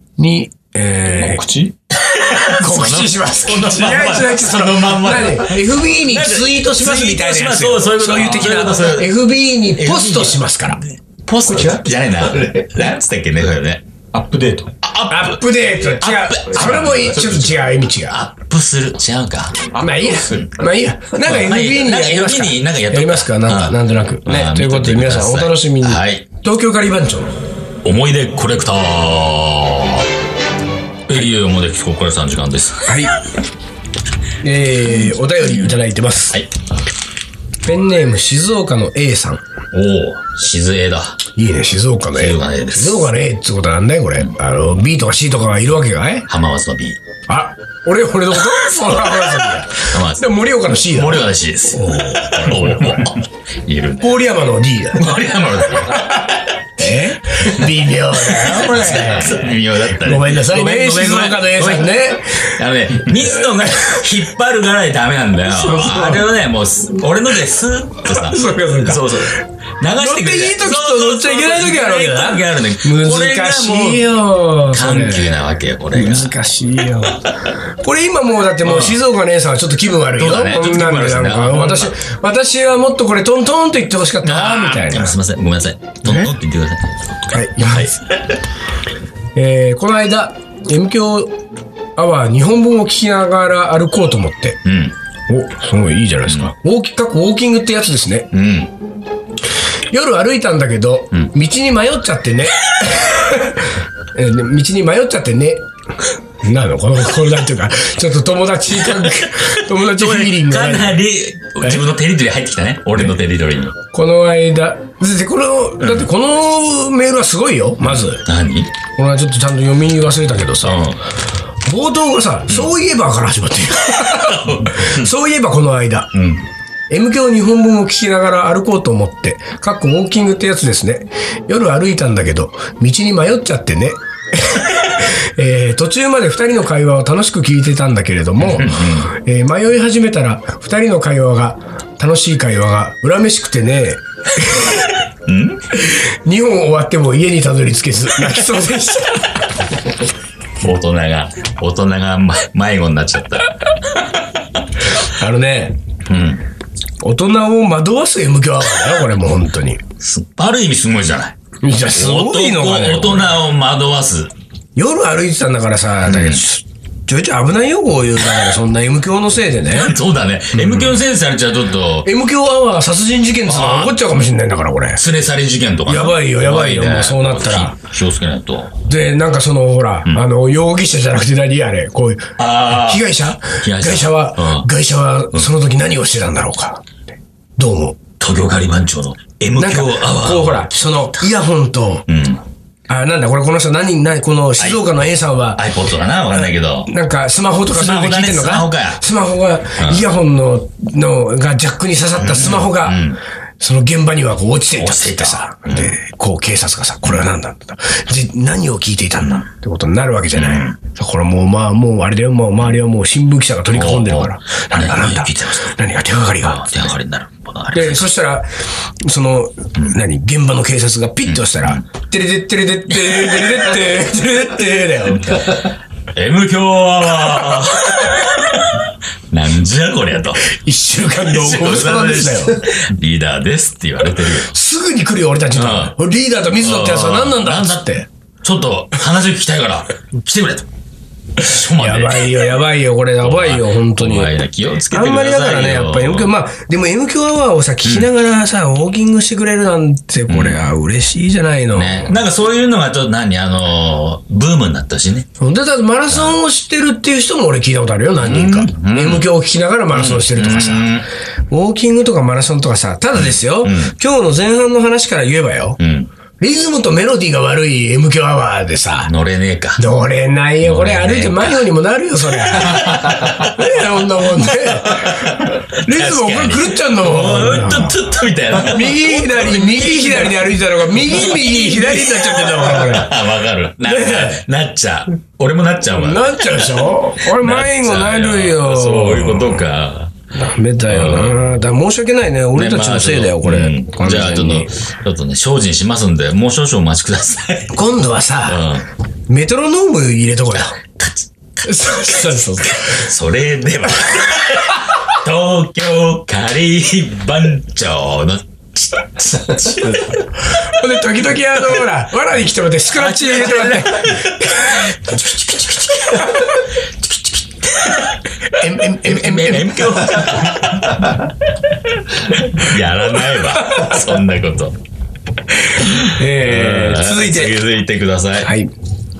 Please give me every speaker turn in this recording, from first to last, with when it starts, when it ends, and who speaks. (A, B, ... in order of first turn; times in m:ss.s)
0:00.2-0:10.8 A
0:01.9-0:09.2 B
0:09.7-0:13.8 B
0:11.5-0:12.7 C
0:14.1-0:14.7 C
0:14.8-0:19.7 B
0:15.1-0:18.2 A
0:16.6-0:17.0 C
0:19.8-0:27.4 A
0:19.8-0:20.5 C
0:21.2-0:26.3 B
0:27.8-0:30.1 B
0:31.1-0:32.9 B
0:32.9-0:33.2 A
0:34.4-0:36.4 A
0:37.6-0:39.4 A
0:39.7-0:41.2 B
0:41.4-0:46.3 A
0:42.1-0:43.1 B
0:46.3-0:47.0 B
0:47.3-0:53.1 A
0:49.1-0:54.2 B
0:54.0-0:55.1 A
0:54.9-1:16.4 B
0:55.9-0:56.3 A
0:56.8-0:59.5 A
1:00.0-1:02.6 A
1:05.5-1:06.3 A
1:08.1-1:09.4 A
1:10.0-1:15.4 A
1:15.9-1:25.2 A
1:18.6-1:19.0 B
1:20.2-1:22.0 B
1:24.2-1:28.4 B
1:26.0-1:26.3 A
1:27.3-1:27.9 A
1:29.4-1:31.4 A
1:32.0-1:34.6 A
1:34.6-1:35.0 B
1:35.3-1:38.3 A
1:36.3-1:36.5 B
1:38.3-1:38.7 B
1:39.9-1:45.7 A
1:46.4-1:51.0 A
1:49.0-1:53.8 B
1:53.9-1:58.2 A
1:55.8-1:56.1 B
1:57.8-1:58.7 B
1:59.0-2:00.8 A
2:00.6-2:01.0 B
2:01.6-2:06.1 A
2:03.9-2:05.1 B
2:06.1-2:06.5 B
2:06.9-2:24.9 A
2:18.4-2:19.1 B
2:25.2-2:25.7 B
2:25.7-2:29.4 A
2:30.6-2:34.3 B
2:35.0-2:35.8 A
2:36.0-2:36.4 B
2:37.0-2:39.8 A
2:40.0-2:44.3 B
2:41.6-2:43.3 A
2:44.8-2:49.9 A
2:46.0-2:46.5 B
2:49.7-2:52.1 B
2:50.6-2:50.9 A
2:52.0-2:55.0 A
2:53.5-2:54.0 B
2:55.0-2:58.7 B
2:55.9-2:57.8 A
2:58.9-3:06.9 A
3:02.4-3:04.7 B
3:07.6-3:08.0 A
3:08.2-3:11.3 B
3:09.6-3:12.1 A
3:12.1-3:12.4 B
3:12.9-3:15.6 A
3:14.6-3:14.8 B
3:15.6-3:16.9 B
3:16.9-3:23.0 A
3:17.7-3:19.0 B
3:19.8-3:20.0 B
3:22.2-3:23.2 B
3:23.6-3:36.7 A
3:24.8-3:26.0 B
3:29.2-3:29.5 B
3:30.3-3:30.8 B
3:33.7-3:35.8 B
3:36.4-3:38.1 B
3:37.7-3:38.5 A
3:39.0-3:45.5 A
3:41.3-3:41.8 B
3:42.9-3:43.8 B
3:45.1-3:50.4 B
3:50.4-3:52.7 A
3:51.1-3:54.5 B
3:54.5-3:58.1 A
3:55.5-3:56.0 B
3:56.5-4:00.7 B
4:01.4-4:02.4 B
4:01.7-4:04.3 A
4:03.2-4:06.3 B
4:04.9-4:12.1 A
4:07.8-4:08.1 B
4:10.3-4:10.6 B
4:11.7-4:15.3 B
4:15.4-4:20.9 A
4:16.1-4:16.4 B
4:18.2-4:19.3 B
4:19.9-4:21.1 B
4:21.5-4:25.8 A
4:23.2-4:23.9 B
4:25.8-4:26.1 B
4:26.4-4:29.1 A
4:29.0-4:29.8 B
4:29.8-4:38.0 A
4:30.6-4:31.7 B
4:32.4-4:33.7 B
4:34.6-4:50.1 B
4:38.6-4:43.2 A
4:43.8-4:44.4 A
4:46.0-4:49.6 A
4:50.4-4:54.7 A
4:50.9-4:51.4 B
4:52.5-4:57.8 B
4:57.7-4:58.7 A
4:58.4-4:58.9 B
4:59.3-5:00.8 A
5:00.5-5:10.2 B
5:01.6-5:03.1 A
5:10.4-5:14.8 A
5:12.9-5:21.2 B
5:18.5-5:20.1 A
5:22.0-5:24.8 B
5:23.6-5:23.9 A
5:25.6-5:27.6 A
5:25.9-5:28.5 B
5:28.4-5:28.7 A